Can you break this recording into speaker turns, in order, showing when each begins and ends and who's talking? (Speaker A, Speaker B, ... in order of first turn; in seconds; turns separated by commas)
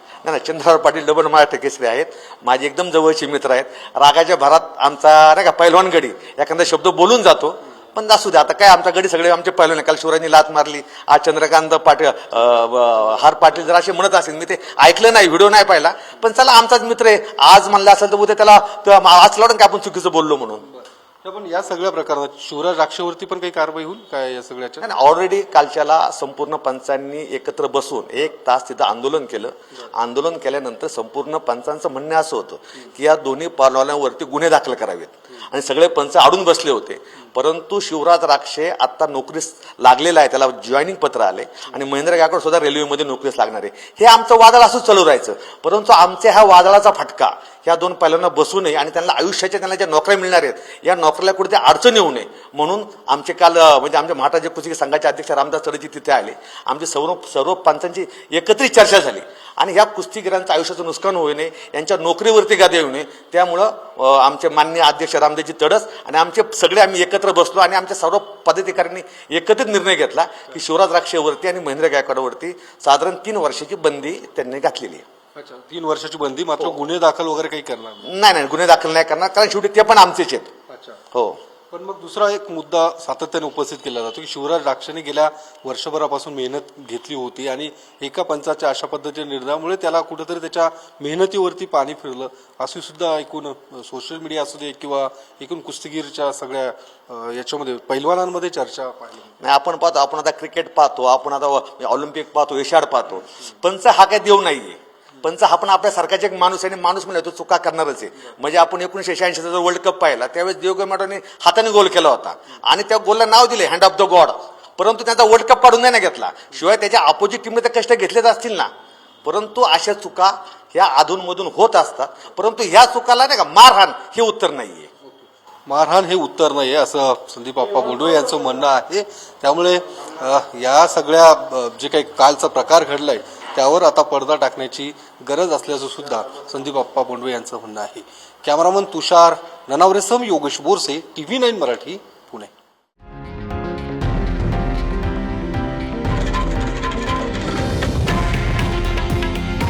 Speaker A: 0.2-20.6, Speaker B: 21.2-24.8, Speaker A: 24.8-75.0, Speaker B: 75.3-78.0, Speaker A: 78.0-80.5, Speaker B: 80.7-81.0, Speaker A: 81.1-81.4, Speaker B: 81.7-99.3, Speaker A: 99.4-118.7, Speaker A: 119.2-124.9, Speaker B: 125.7-142.5